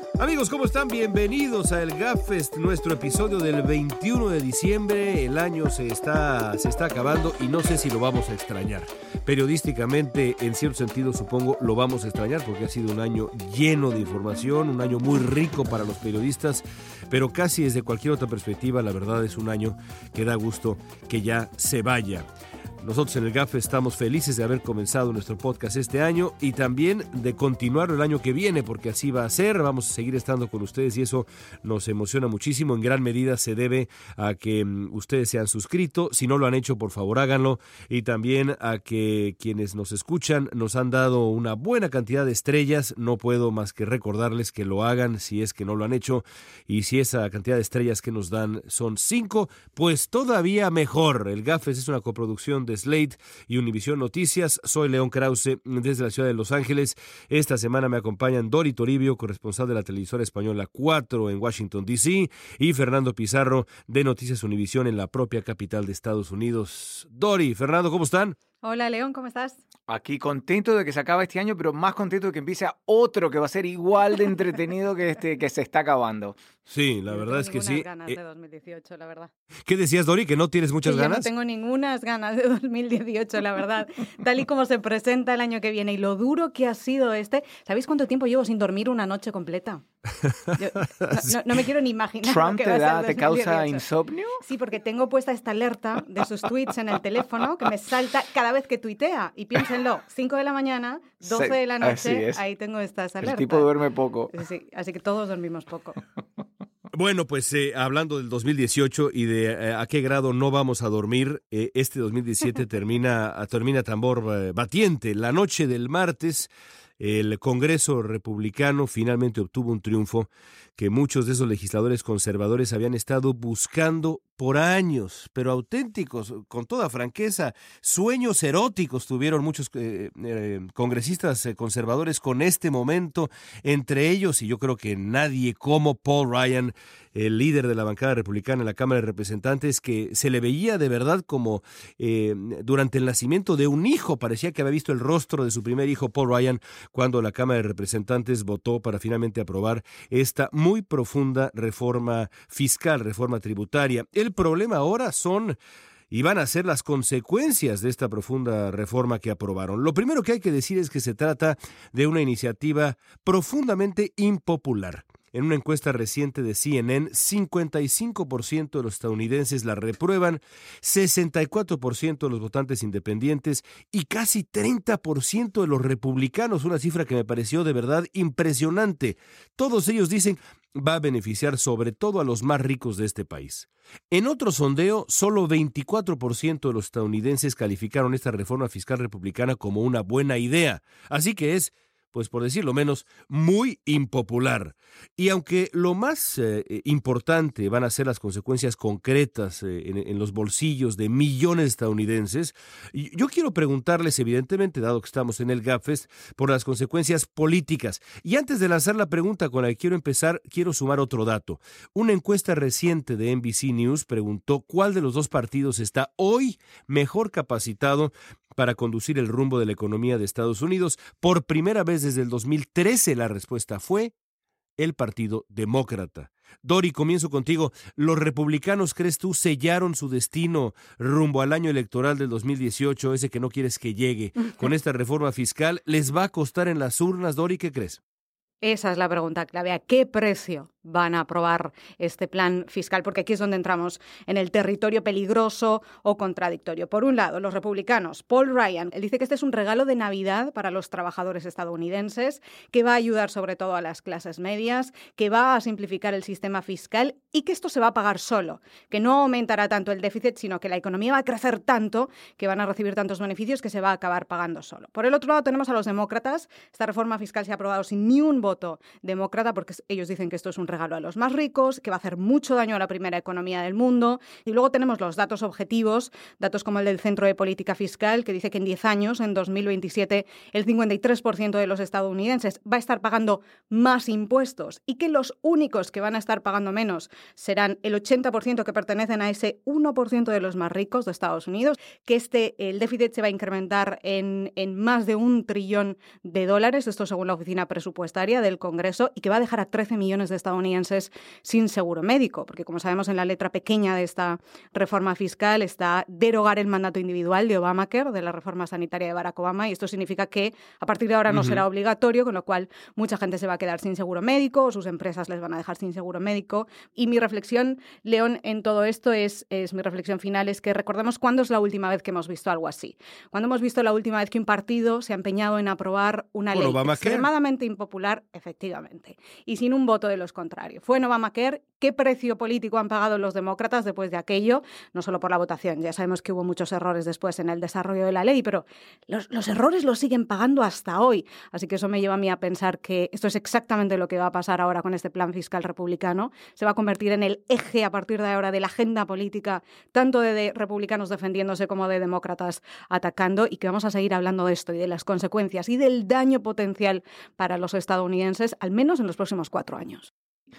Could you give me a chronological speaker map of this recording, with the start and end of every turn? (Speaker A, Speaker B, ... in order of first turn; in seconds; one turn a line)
Speaker A: 0.2-22.3
Speaker A: 22.8-68.3
Speaker B: 68.6-69.6
Speaker C: 69.9-76.4
Speaker A: 76.7-78.2
Speaker B: 77.1-79.3
Speaker A: 79.7-81.3
Speaker B: 80.8-89.8
Speaker B: 90.5-93.8
Speaker A: 91.0-91.3
Speaker C: 92.2-94.4
Speaker B: 94.4-103.7
Speaker C: 101.2-102.4
Speaker C: 103.2-104.3
Speaker B: 104.3-106.0
Speaker A: 106.9-155.6
Speaker A: 156.1-224.1
Speaker A: 224.8-238.0
Speaker B: 238.6-360.1
Speaker A: 311.3-311.6
Speaker A: 326.5-327.3